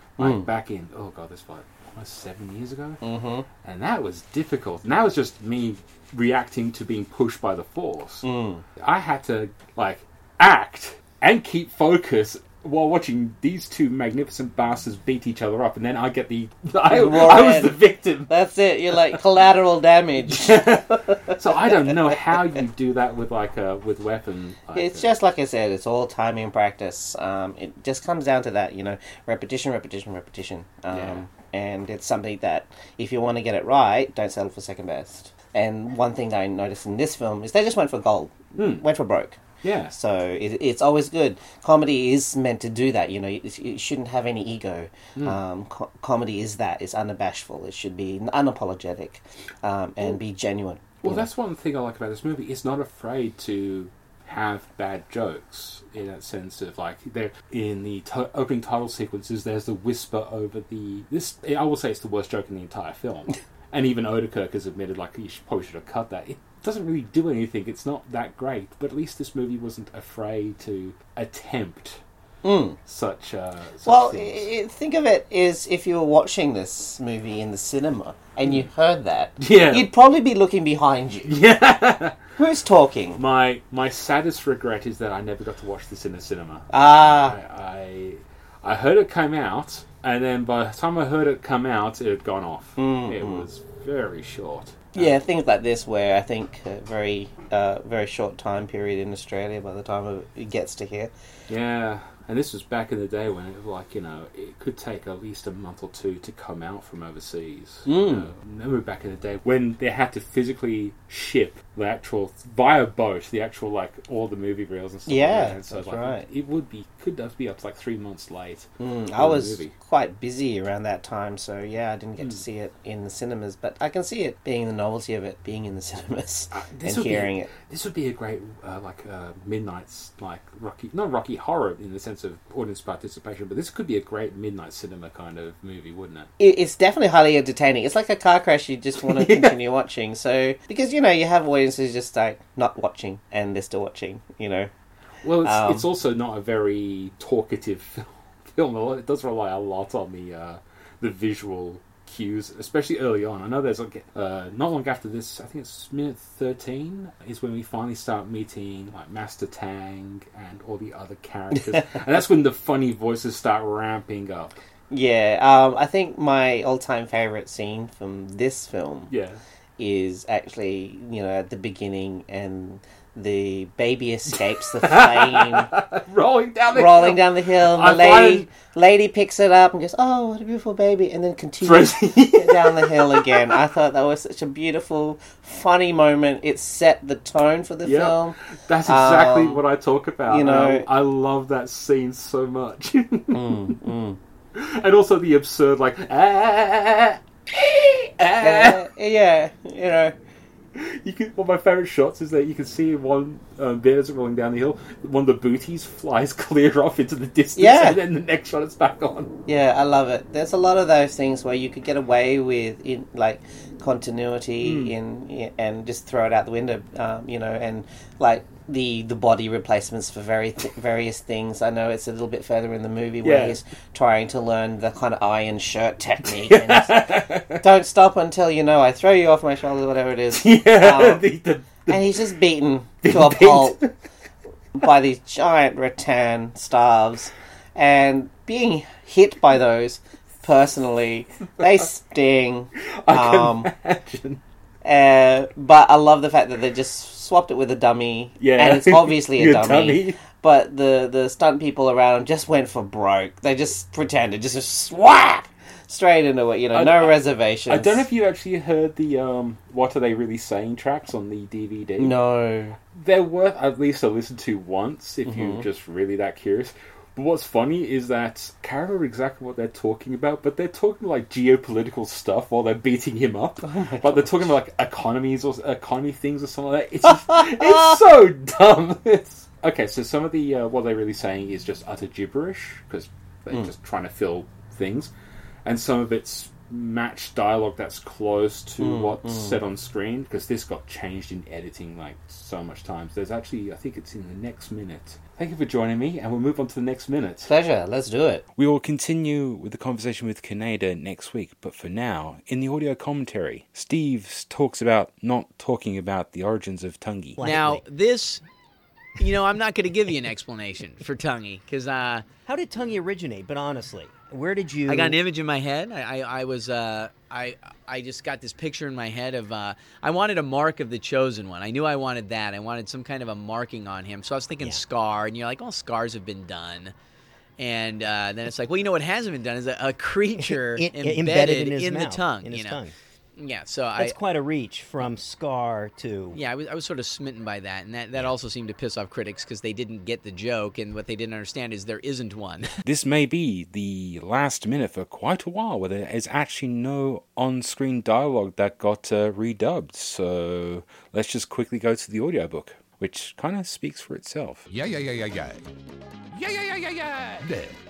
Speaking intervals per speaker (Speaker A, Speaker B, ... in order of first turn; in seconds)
Speaker A: 0.2-3.0, 3.6-8.2, 8.8-18.3, 18.9-19.2, 20.3-25.1, 30.9-31.2, 38.6-38.8, 39.6-39.9, 51.0-72.0, 72.8-74.4, 79.4-79.9, 81.2-82.2, 83.2-95.1, 101.5-119.7, 126.5-136.3, 139.0-139.6, 145.2-164.6, 169.1-169.4, 174.3-178.5, 181.6-183.6, 187.8-193.8, 194.5-198.8, 200.7-209.3, 214.6-214.9, 223.2-223.6, 226.2-227.6, 230.3-232.2, 233.0-233.9, 243.0-244.4, 248.4-250.2, 256.7-257.1, 257.7-262.1, 262.9-285.1, 285.6-297.5, 298.6-307.4, 342.8-354.7
Speaker B: 0.2-0.5, 3.0-3.5, 8.2-8.6, 16.9-22.5, 24.7-51.3, 72.4-72.8, 73.8-81.3, 82.3-83.2, 86.7-87.4, 92.8-93.5, 94.9-101.1, 107.8-108.3, 115.0-116.2, 118.8-127.5, 136.4-144.7, 145.4-145.8, 164.9-169.1, 169.8-175.7, 176.7-189.6, 190.3-190.8, 193.3-194.2, 198.4-200.2, 207.6-208.0, 209.5-231.3, 231.8-233.8, 234.7-243.7, 244.8-258.0, 262.0-262.8, 265.2-265.6, 273.6-274.5, 288.8-289.6, 297.4-298.4
Speaker C: 307.4-307.8, 312.4-315.2, 330.5-332.9, 334.0-336.4
Speaker D: 307.4-308.4, 309.2-312.2, 314.9-326.9, 327.6-332.8, 333.4-334.2, 336.3-342.7
Speaker E: 354.7-355.6, 356.3-357.7